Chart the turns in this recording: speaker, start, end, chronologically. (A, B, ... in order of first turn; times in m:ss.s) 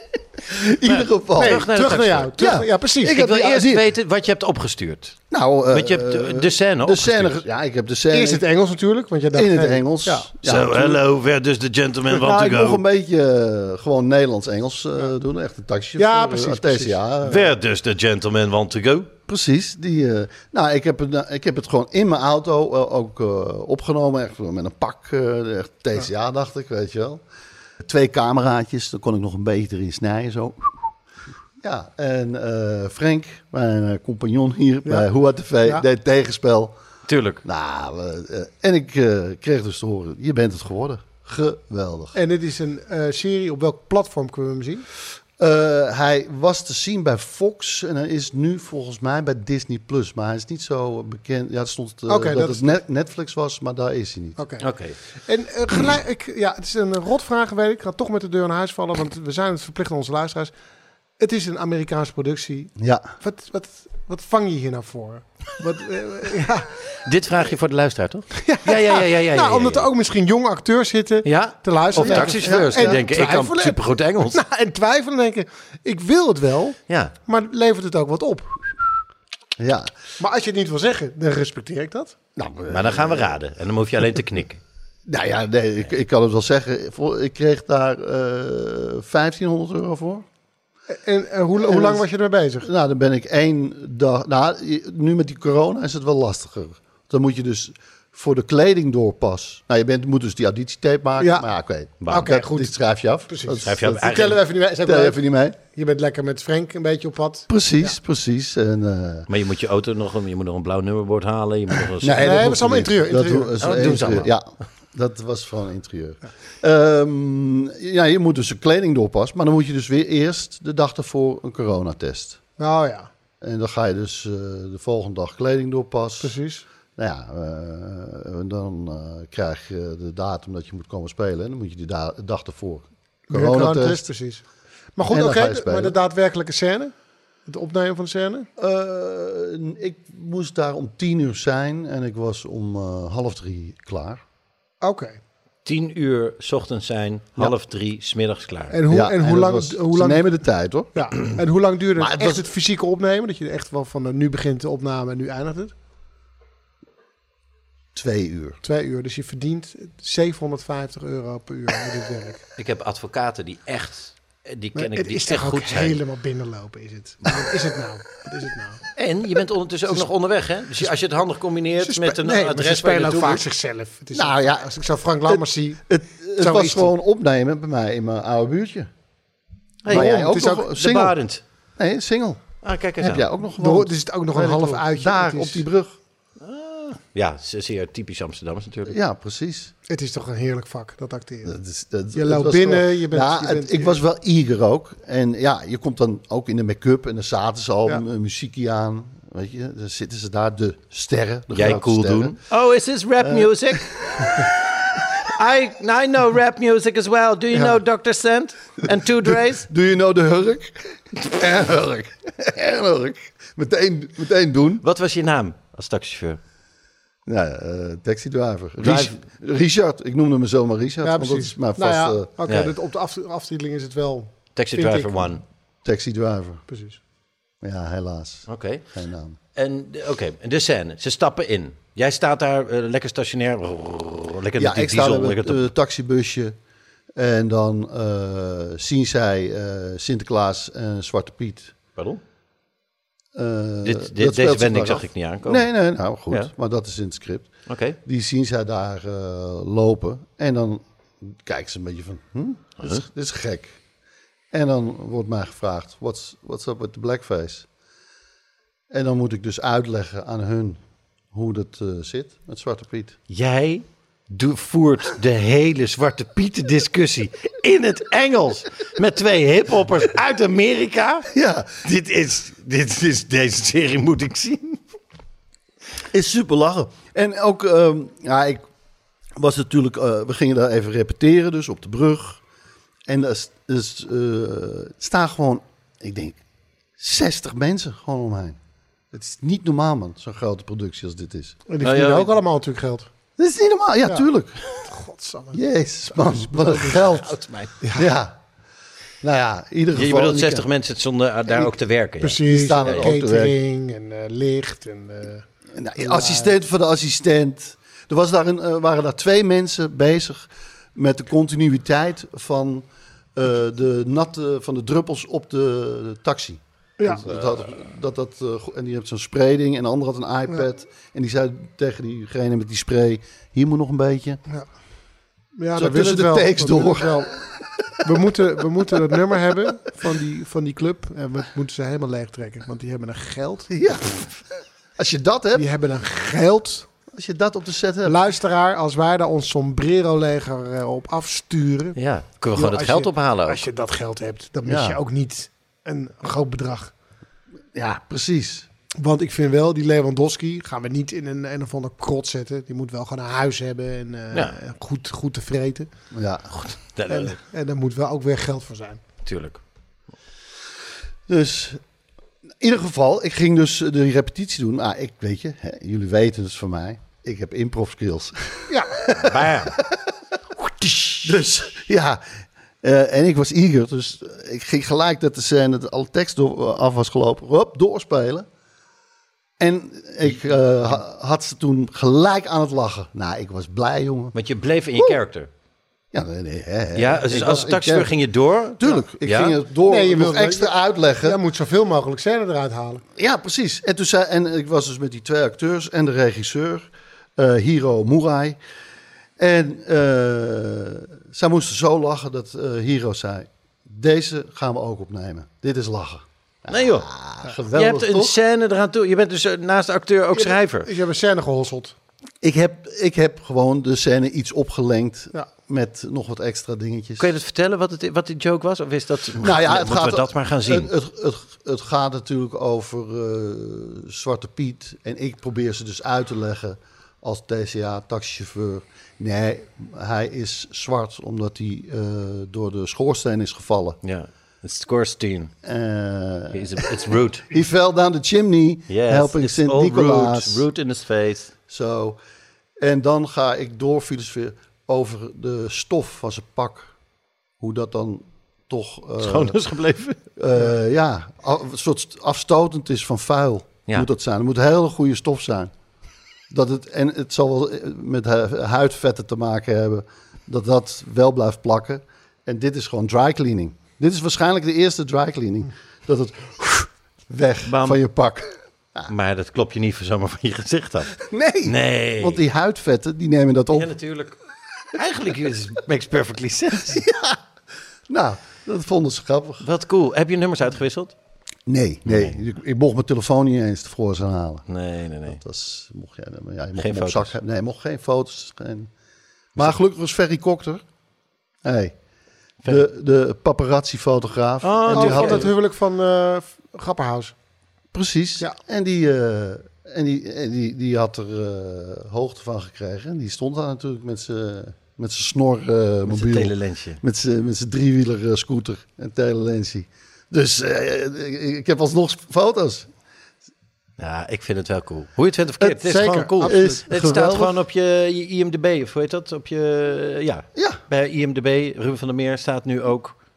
0:00.4-0:01.7 A
0:00.8-0:02.3 B
0:01.4-0:03.2 C
0:02.4-0:03.8 A
0:03.0-0:07.4 B
0:05.3-0:08.4 A
0:08.1-0:10.3 C
0:09.3-0:11.0 A
0:10.4-0:12.8 B
0:12.1-0:17.6 A
0:16.0-0:17.0 C
0:17.2-0:19.1 B
0:19.3-0:27.2 A
0:27.8-0:30.9 A
0:31.6-0:36.8 A
0:37.1-0:37.4 B
0:37.4-0:42.2 A
0:42.2-0:44.8 C
0:45.4-0:54.4 A
0:52.1-0:52.8 C
0:54.4-0:54.7 C
0:54.6-0:55.0 B
0:55.3-1:00.5 C
1:01.2-1:06.7 C
1:02.8-1:03.1 A
1:07.0-1:09.9 B
1:08.4-1:13.8 C
1:11.2-1:14.4 B
1:12.0-1:13.0 A
1:14.3-1:18.6 C
1:16.9-1:17.1 B
1:19.6-1:19.9 A
1:20.2-1:22.2 C
1:22.4-1:23.4 A
1:22.7-1:24.6 B
1:25.1-1:30.3 A
1:30.9-1:32.7 C
1:31.6-1:32.1 A
1:32.6-1:44.0 A
1:41.2-1:41.5 C
1:42.0-1:42.3 B
1:42.1-1:42.7 C
1:43.3-1:48.0 C
1:43.6-1:44.4 B
1:44.8-1:45.6 A
1:47.5-1:49.3 A
1:49.3-1:52.4 B
1:52.0-2:02.4 A
1:52.2-1:53.7 C
1:53.6-1:54.3 B
2:02.6-2:03.1 C
2:03.4-2:06.4 A
2:06.2-2:06.6 C
2:07.0-2:14.1 A
2:13.3-2:14.4 C
2:15.0-2:16.9 C
2:15.1-2:16.0 A
2:17.5-2:18.5 C
2:18.6-2:24.2 A
2:24.8-2:25.2 C
2:25.6-2:28.8 B
2:28.7-2:30.3 C
2:28.9-2:31.1 A
2:30.9-2:35.7 C
2:32.0-2:32.5 A
2:38.0-2:38.6 A
2:38.6-2:42.4 C
2:42.6-2:46.0 B
2:44.8-2:48.8 C
2:49.0-2:53.4 B
2:51.8-2:55.8 C
2:54.1-2:54.7 A
2:55.2-2:58.9 A
2:56.4-2:56.9 C
2:59.8-3:01.4 B
2:59.9-3:01.2 A
2:59.9-3:00.6 C
3:01.8-3:02.5 A
3:02.6-3:03.3 B
3:03.0-3:06.0 A
3:03.6-3:05.7 C
3:06.4-3:08.9 B
3:08.9-3:09.7 A
3:09.9-3:11.6 C
3:11.4-3:22.4 A
3:12.1-3:14.0 C
3:21.5-3:24.5 B
3:23.2-3:24.5 A
3:25.2-3:29.7 B
3:29.3-3:34.8 A
3:34.8-3:36.4 B
3:37.3-3:42.3 A
3:38.8-3:39.2 B
3:41.0-3:45.4 C
3:42.5-3:42.7 B
3:44.6-3:45.4 B
3:45.8-3:46.6 A
3:46.7-3:47.0 C
3:47.6-3:49.4 A
3:48.5-3:48.8 B
3:49.6-3:55.6 B
3:54.6-3:56.6 A
3:57.2-4:01.8 A
4:03.3-4:07.5 A
4:03.8-4:05.7 B
4:07.7-4:08.0 B
4:08.0-4:13.8 A
4:12.8-4:13.0 B
4:14.5-4:17.7 A
4:18.9-4:20.8 A
4:21.3-4:23.2 A
4:23.3-4:31.3 B
4:31.3-4:31.8 A
4:31.8-4:34.8 B
4:36.1-4:38.6 A
4:39.4-4:42.4 A
4:43.1-4:46.4 A
4:47.0-4:48.6 A
4:49.1-4:51.6 A
4:51.7-4:53.1 C
4:51.8-4:52.4 B
4:53.4-4:54.8 A
4:54.8-4:57.0 C
4:55.5-4:57.4 A
4:57.2-4:57.7 B
4:57.9-4:58.4 A
4:59.2-5:00.7 A
4:59.9-5:03.1 B
5:01.5-5:01.7 A
5:02.2-5:05.5 C
5:02.5-5:03.6 A
5:05.7-5:24.4 A
5:06.0-5:06.5 C
5:17.0-5:17.2 C
5:25.6-5:27.3 C
5:25.8-5:27.4 A
5:28.0-5:33.7 C
5:33.7-5:34.3 A
5:35.0-5:35.7 A
5:35.6-5:36.9 C
5:37.1-5:38.2 A
5:38.0-5:42.0 C
5:42.0-5:43.6 B
5:42.6-5:46.9 C
5:44.6-5:45.0 A
5:47.7-5:48.7 A
5:49.0-5:55.9 C
5:56.1-5:56.5 A
5:56.5-5:57.4 B
5:57.1-5:59.0 C
5:59.2-5:59.6 B
6:01.3-6:01.8 A
6:02.6-6:10.0 A
6:08.7-6:09.0 C
6:09.1-6:09.8 B
6:10.8-6:11.2 B
6:11.2-6:12.2 A
6:12.8-6:18.5 A
6:19.6-6:24.4 A
6:24.4-6:25.5 B
6:24.9-6:25.2 A
6:26.1-6:28.2 A
6:27.0-6:29.6 B
6:28.8-6:31.4 A
6:29.9-6:33.0 C
6:33.2-6:38.6 A
6:39.4-6:48.4 A
6:46.7-6:47.1 B
6:47.7-6:50.9 B
6:50.3-6:52.0 C
6:52.4-6:57.3 A
6:57.2-7:00.9 B
6:59.4-7:14.0 A
7:14.0-7:15.5 B
7:15.6-7:20.7 A
7:16.5-7:17.5 B
7:18.9-7:21.5 B
7:21.7-7:22.2 A
7:22.8-7:26.9 A
7:27.6-7:29.6 A
7:29.2-7:30.2 B
7:30.4-7:35.7 A
7:36.5-7:49.1 A
7:47.7-7:48.0 B
7:49.1-7:52.4 B
7:51.2-7:53.9 A
7:53.7-7:54.4 B
7:54.9-7:57.0 B
7:56.9-7:57.4 A
7:58.1-7:59.6 A
7:59.6-8:01.2 B
8:01.7-8:04.7 A
8:02.0-8:02.4 B
8:04.7-8:05.4 B
8:05.3-8:08.9 A
8:06.8-8:07.3 B
8:09.6-8:10.8 A
8:11.6-8:12.0 A
8:12.6-8:15.5 A
8:14.6-8:15.5 B
8:14.9-8:17.3 C
8:17.9-8:32.9 A
8:26.1-8:27.0 B
8:34.0-8:43.2 B
8:35.6-8:36.8 C
8:36.4-8:37.6 A
8:40.6-8:40.8 A